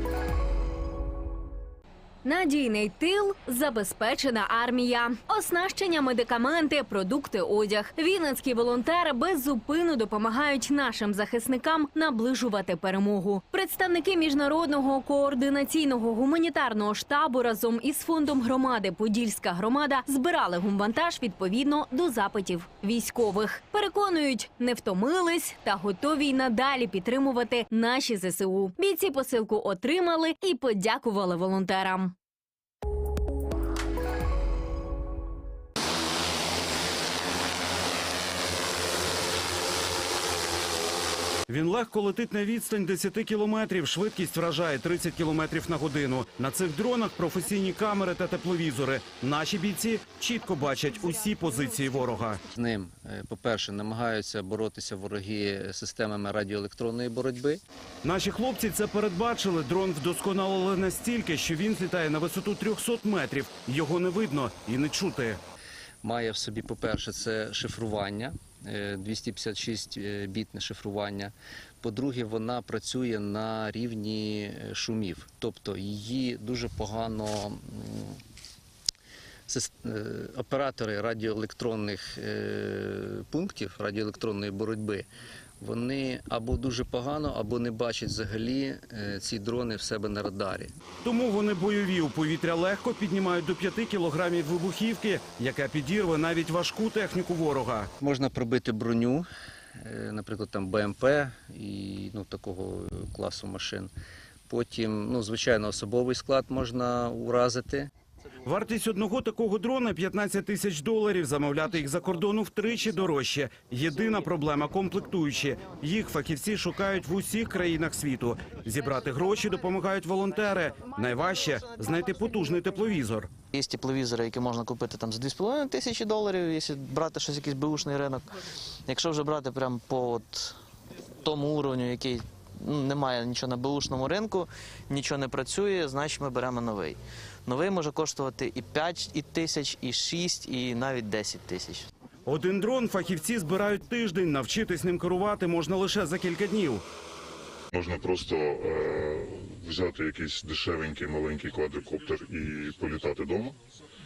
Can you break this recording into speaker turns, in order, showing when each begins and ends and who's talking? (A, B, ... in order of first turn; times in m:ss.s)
0:02.2-0:32.1 A
0:41.5-0:52.4 B
0:52.6-0:57.6 C
0:58.0-1:05.4 B
1:06.0-1:18.2 C
1:19.5-1:25.1 C
1:25.6-1:30.7 C
1:31.0-1:37.9 B
1:38.0-1:39.2 C
1:39.8-1:43.9 C
1:44.5-1:47.9 C
1:48.4-2:03.3 B
2:03.5-2:08.3 D
2:08.9-2:10.5 D
2:11.2-2:21.8 D
2:22.3-2:26.8 B
2:27.7-2:33.5 E